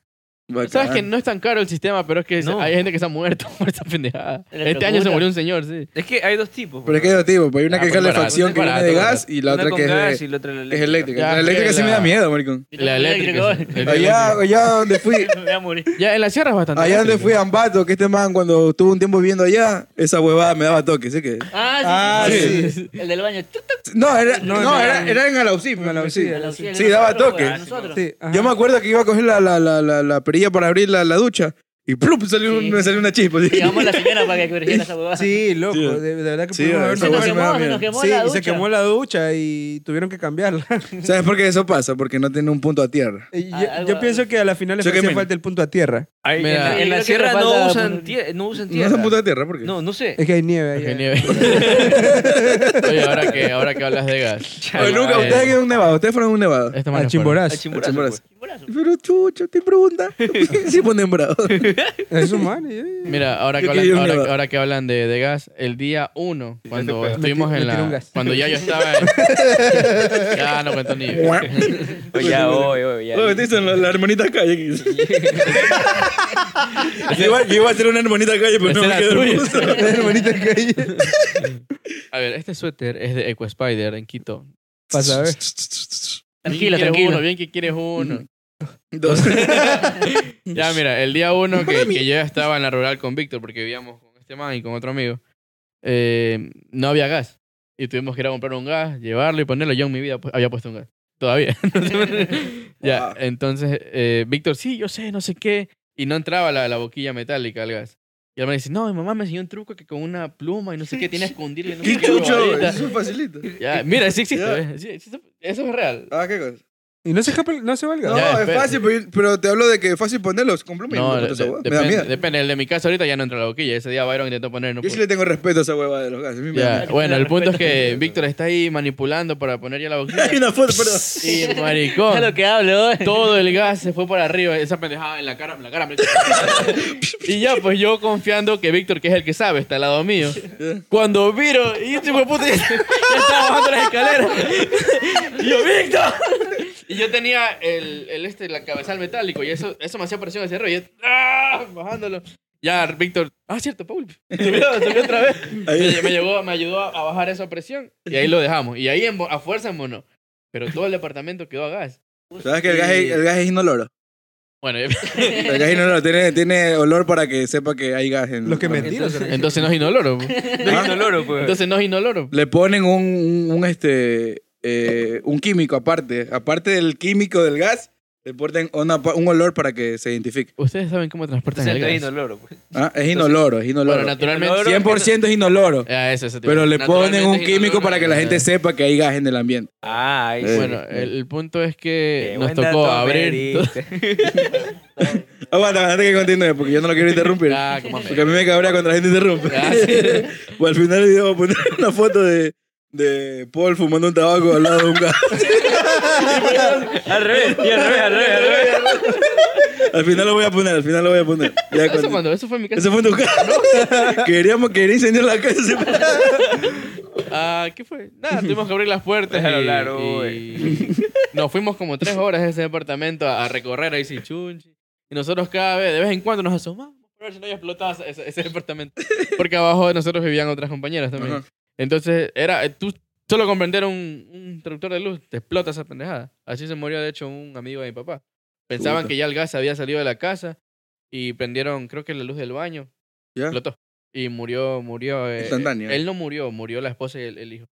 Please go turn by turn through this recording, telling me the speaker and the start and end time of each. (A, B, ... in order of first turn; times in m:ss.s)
0:00.5-0:01.0 A
0:00.6-0:05.9 B
0:02.4-0:02.7 C
0:04.5-0:05.3 D
0:05.9-0:07.3 C
0:06.8-0:12.6 A
0:07.7-0:09.3 B
0:08.0-0:11.4 C
0:11.1-0:12.2 B
0:12.7-0:14.1 D
0:12.7-0:14.4 B
0:13.8-0:15.3 A
0:14.8-0:15.9 D
0:16.0-0:17.4 B
0:16.7-0:21.5 A
0:21.5-0:25.2 D
0:21.8-0:22.7 E
0:22.2-0:22.5 A
0:22.2-0:22.9 B
0:23.9-0:27.6 A
0:24.4-0:25.2 E
0:25.8-0:26.7 E
0:26.3-0:28.0 D
0:27.1-0:28.0 C
0:27.9-0:28.5 E
0:28.3-0:34.8 A
0:32.4-0:32.9 D
0:33.4-0:35.4 D
0:35.2-0:40.9 E
0:35.7-0:37.8 A
0:37.0-0:38.6 D
0:41.0-0:43.3 A
0:43.3-0:46.1 E
0:43.5-0:44.2 D
0:44.8-0:45.3 A
0:46.2-0:50.2 C
0:46.4-0:46.8 B
0:46.6-0:48.1 D
0:48.7-0:49.7 A
0:50.2-0:53.3 E
0:50.7-0:52.1 B
0:51.4-0:52.7 A
0:51.5-0:51.9 C
0:52.8-0:55.6 B
0:53.2-0:53.5 C
0:54.5-0:55.6 C
0:54.8-0:56.8 A
0:56.7-0:57.4 B
0:56.9-0:57.6 E
0:57.5-0:58.2 C
0:57.7-1:01.6 A
0:58.3-0:58.7 D
1:00.2-1:00.6 C
1:01.5-1:02.4 C
1:02.1-1:03.2 E
1:03.0-1:09.2 B
1:03.6-1:04.3 A
1:06.7-1:07.2 C
1:07.2-1:08.4 E
1:09.0-1:10.4 E
1:10.3-1:12.1 B
1:11.1-1:16.1 A
1:12.1-1:13.5 C
1:14.8-1:15.8 C
1:17.1-1:17.4 B
1:17.1-1:20.1 A
1:18.6-1:19.8 B
1:19.8-1:21.4 E
1:20.9-1:21.6 B
1:22.1-1:24.5 B
1:24.9-1:25.4 E
1:24.9-1:26.2 A
1:26.4-1:27.2 D
1:26.5-1:28.2 B
1:28.9-1:30.0 A
1:29.0-1:35.2 B
1:30.5-1:30.8 A
1:35.8-1:52.8 B
1:42.8-1:43.2 A
1:51.8-1:53.4 A
1:51.8-1:52.5 C
1:53.4-1:53.8 C
1:53.6-1:56.1 B
1:54.3-1:54.6 A
1:56.1-1:56.6 A
1:57.0-1:58.3 E
1:58.0-2:02.1 A
1:58.1-1:58.7 B
2:00.9-2:05.0 B
2:04.8-2:06.9 A
2:06.5-2:10.4 B
2:06.8-2:08.0 D
2:10.1-2:11.2 A
2:11.2-2:12.4 B
2:11.2-2:13.4 D
2:13.0-2:42.0 B
2:16.1-2:17.4 A
2:20.5-2:20.8 A
2:34.3-2:34.7 A
2:35.6-2:36.2 A
2:42.3-2:42.6 D
2:42.4-2:43.9 A
2:42.7-2:43.2 C
2:44.6-2:45.5 B
2:45.1-2:45.7 D
2:45.4-2:48.9 A
2:48.4-2:49.7 E
2:48.7-2:49.3 C
2:49.3-2:50.4 B
2:50.2-2:50.9 D
2:50.6-2:51.6 C
2:50.6-2:50.9 A
2:51.3-2:52.3 B
2:52.3-3:00.5 A
3:00.6-3:02.1 B
3:01.5-3:03.4 C
3:02.7-3:05.9 A
3:03.8-3:04.9 B
3:04.2-3:05.1 C
3:05.8-3:08.5 B
3:06.4-3:09.7 A
3:09.8-3:10.8 C
3:10.4-3:11.1 A
3:10.5-3:13.7 B
3:12.2-3:14.6 C
3:15.4-3:25.9 A
3:17.4-3:18.3 B
3:19.5-3:20.4 B
3:25.6-3:29.9 B
3:26.1-3:26.6 E
3:27.0-3:29.0 C
3:29.8-3:36.4 A
3:31.7-3:34.0 B
3:33.8-3:34.2 E
3:36.3-3:40.8 B
3:39.3-3:41.1 C
3:41.3-4:00.6 B
3:51.2-3:51.4 A
3:58.8-3:59.1 A
4:01.1-4:02.9 B
4:03.5-4:07.7 B
4:05.4-4:06.0 A